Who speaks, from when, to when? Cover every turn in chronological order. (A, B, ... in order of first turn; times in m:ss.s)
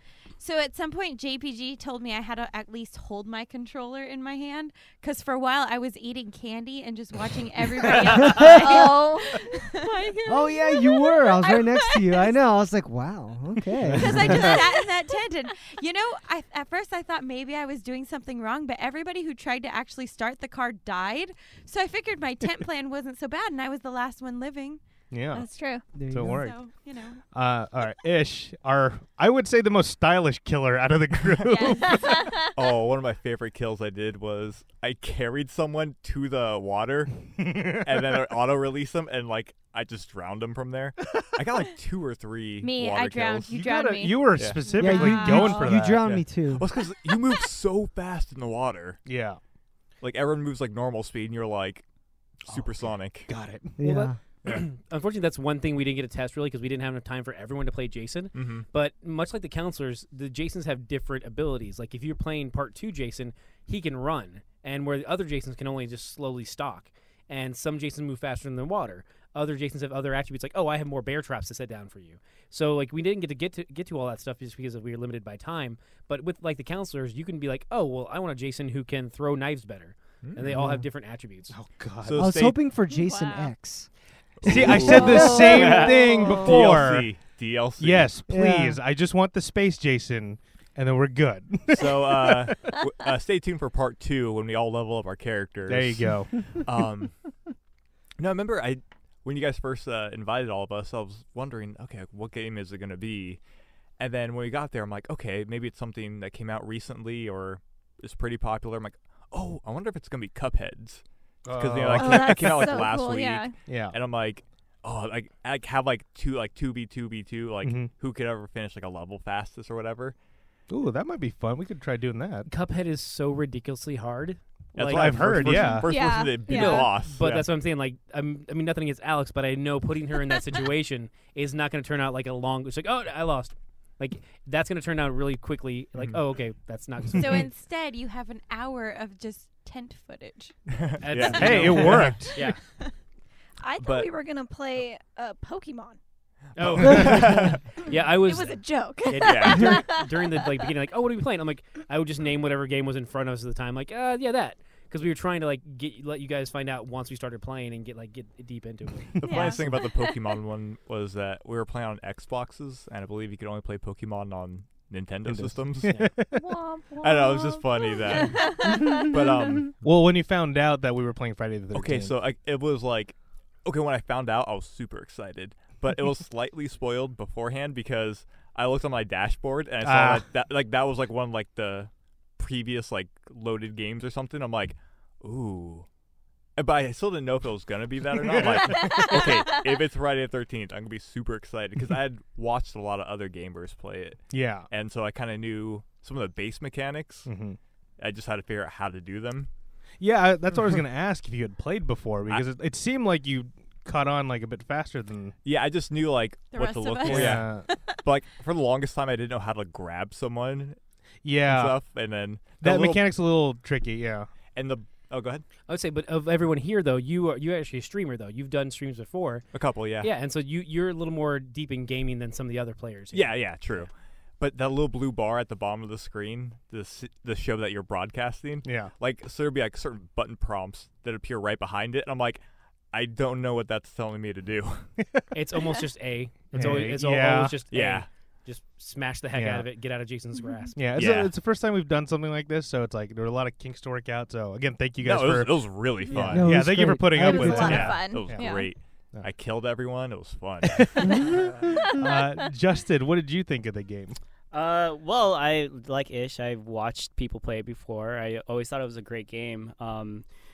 0:00.4-0:10.1 A
0:08.0-0:11.9 B
0:08.2-0:09.0 C
0:10.3-0:14.6 C
0:11.4-0:12.4 A
0:13.8-0:14.5 D
0:14.0-0:24.8 A
0:14.6-0:14.9 B
0:25.1-0:25.5 D
0:25.3-0:25.8 B
0:25.9-0:26.5 C
0:26.1-0:26.6 D
0:26.3-0:27.2 A
0:27.3-0:32.2 D
0:31.5-0:31.9 A
0:31.5-0:32.5 B
0:32.3-0:43.5 E
0:37.4-0:37.9 D
0:42.6-0:45.8 A
0:43.5-0:46.2 D
0:44.8-0:46.7 C
0:46.1-0:49.0 E
0:49.1-0:49.4 D
0:50.0-0:51.8 E
0:52.5-0:53.3 E
0:53.3-0:54.1 D
0:53.8-0:54.2 C
0:53.9-1:21.6 F
0:58.3-0:58.7 E
1:20.2-1:20.6 E
1:20.5-1:20.9 C
1:21.5-1:22.3 D
1:22.0-1:22.6 E
1:22.2-1:23.9 C
1:22.9-1:23.5 B
1:24.4-1:25.2 E
1:24.4-1:27.1 D
1:24.5-1:26.4 C
1:25.0-1:26.4 B
1:25.6-1:25.9 G
1:26.4-1:28.1 E
1:27.8-1:32.6 D
1:28.3-1:28.8 C
1:31.7-1:37.2 E
1:35.7-1:36.5 D
1:38.2-1:43.4 E
1:44.0-1:51.0 E
1:51.4-1:52.8 D
1:51.5-2:00.2 E
1:51.9-1:53.6 B
1:53.6-1:54.0 D
1:57.6-1:57.9 D
2:00.7-2:02.5 D
2:02.5-2:17.5 F
2:04.8-2:07.5 E
2:04.9-2:05.9 D
2:05.7-2:07.0 B
2:17.2-2:20.6 A
2:20.7-2:22.2 E
2:21.0-2:22.6 F
2:21.3-2:22.4 D
2:23.6-2:26.0 B
2:23.8-2:24.1 E
2:26.6-2:39.7 F
2:26.7-2:27.6 E
2:27.9-2:30.5 B
2:29.2-2:29.9 E
2:39.2-2:46.0 E
2:39.2-2:40.2 B
2:45.3-2:46.4 D
2:45.9-2:46.2 F
2:46.3-2:49.6 B
2:47.0-2:49.7 E
2:49.8-2:52.2 D
2:51.7-3:05.9 E
2:59.8-3:00.3 D
3:06.6-3:17.3 E
3:08.3-3:09.1 D
3:08.8-3:09.6 B
3:14.3-3:14.7 D
3:17.3-3:17.6 D
3:18.0-3:19.5 E
3:20.0-3:25.4 D
3:25.4-3:30.8 E
3:26.5-3:28.0 A
3:27.0-3:27.7 D
3:31.2-3:31.8 D
3:31.4-3:33.1 E
3:32.6-3:34.3 D
3:34.6-3:35.5 E
3:35.7-3:39.5 F
3:39.5-3:40.1 E
3:40.0-3:43.4 F
3:43.1-3:43.9 E
3:44.4-3:54.9 E
3:48.6-3:48.9 D
3:55.3-4:00.8 F
3:56.5-3:57.6 D
3:57.7-3:58.1 E
3:59.3-3:59.7 D
4:00.8-4:08.5 D
4:01.0-4:01.3 E
4:05.0-4:06.5 E
4:06.2-4:08.1 C
4:07.2-4:08.7 B
4:07.6-4:11.2 E
4:10.8-4:14.2 D
4:11.0-4:11.5 C
4:14.5-4:20.2 G